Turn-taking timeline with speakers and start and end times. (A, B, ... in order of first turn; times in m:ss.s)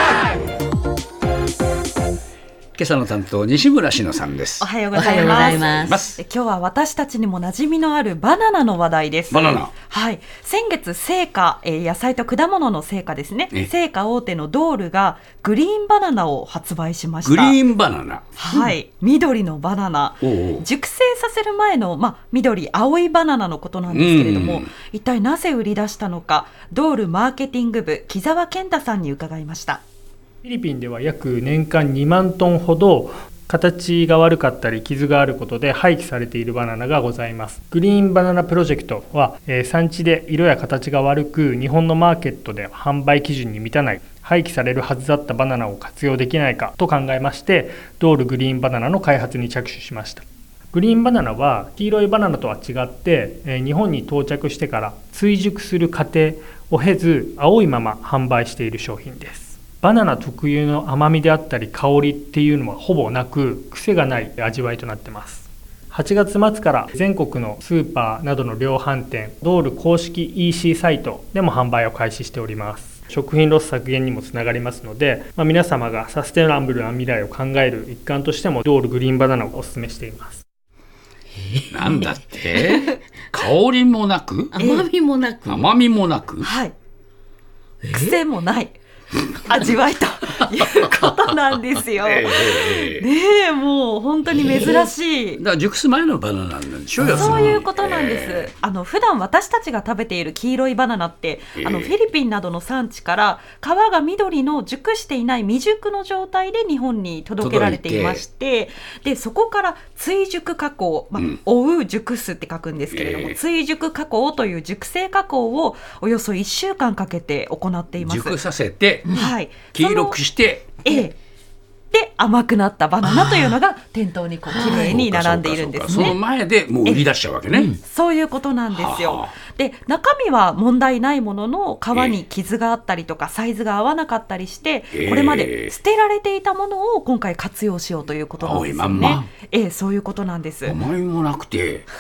0:02.8-0:04.7 A
0:04.6-0:17.6 B
0:04.9-0:06.0 C
0:05.3-0:06.2 A
0:09.3-0:09.7 A
0:17.2-0:18.3 A
0:18.4-0:29.8 B
0:20.2-0:20.7 A
0:23.9-0:24.7 A
0:30.4-1:20.4 D
1:21.3-1:22.9 C
1:21.7-1:24.5 A
1:24.5-1:25.7 C
1:24.6-1:24.9 B
1:25.4-1:26.5 A
1:26.4-1:26.7 B
1:27.8-1:28.2 C
1:27.9-1:28.8 B
1:29.3-1:35.4 B
1:32.0-1:33.0 A
1:34.4-1:34.8 C
1:35.4-1:38.5 A
1:37.0-1:37.5 C
1:37.0-1:58.4 B
1:41.6-1:41.9 A
1:47.4-1:48.2 A
1:52.9-1:53.4 A
1:58.0-1:59.1 A
1:59.1-2:00.2 B
1:59.7-2:00.7 A
2:00.8-2:01.1 B
2:01.9-2:06.2 B
2:03.0-2:03.5 C
2:04.5-2:05.0 C
2:04.6-2:07.7 A
2:05.9-2:06.1 C
2:06.8-2:07.1 B
2:07.5-2:07.8 C
2:07.8-2:20.8 B
2:08.7-2:09.4 A
2:14.9-2:15.7 A
2:18.4-2:19.2 A
2:18.9-2:19.3 C
2:20.6-2:21.9 A